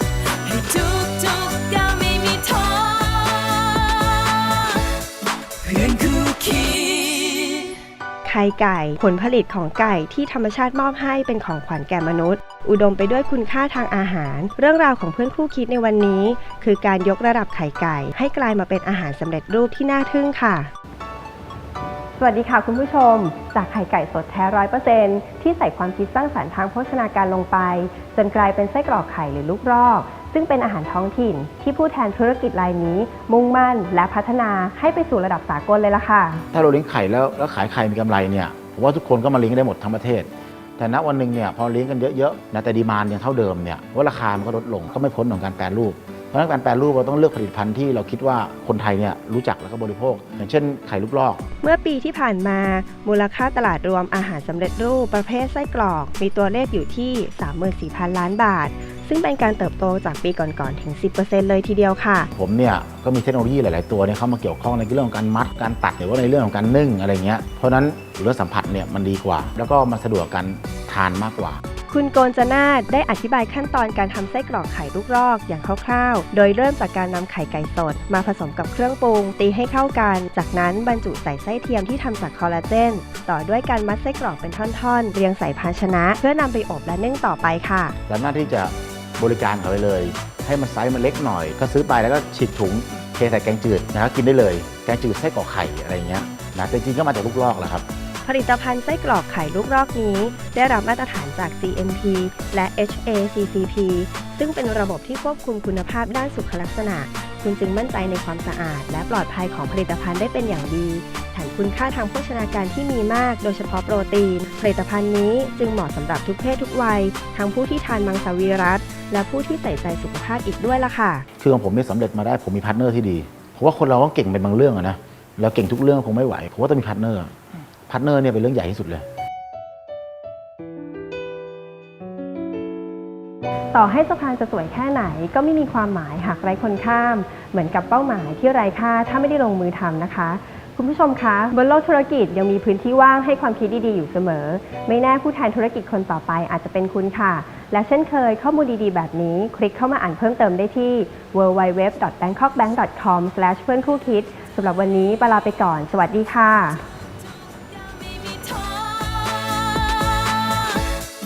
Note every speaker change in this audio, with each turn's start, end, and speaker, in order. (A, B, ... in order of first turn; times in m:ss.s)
0:00.4-0:05.0 A
0:05.6-0:07.8 A
0:08.2-0:20.7 B
0:22.2-0:36.4 B
0:36.5-0:51.4 C
0:51.6-1:02.3 B
1:02.4-1:11.6 C
1:11.9-1:28.0 B
1:28.1-1:37.8 C
1:38.2-2:01.2 B
2:01.4-2:07.3 C
2:07.9-2:09.0 C
2:13.7-2:36.8 B
2:37.5-2:40.9 A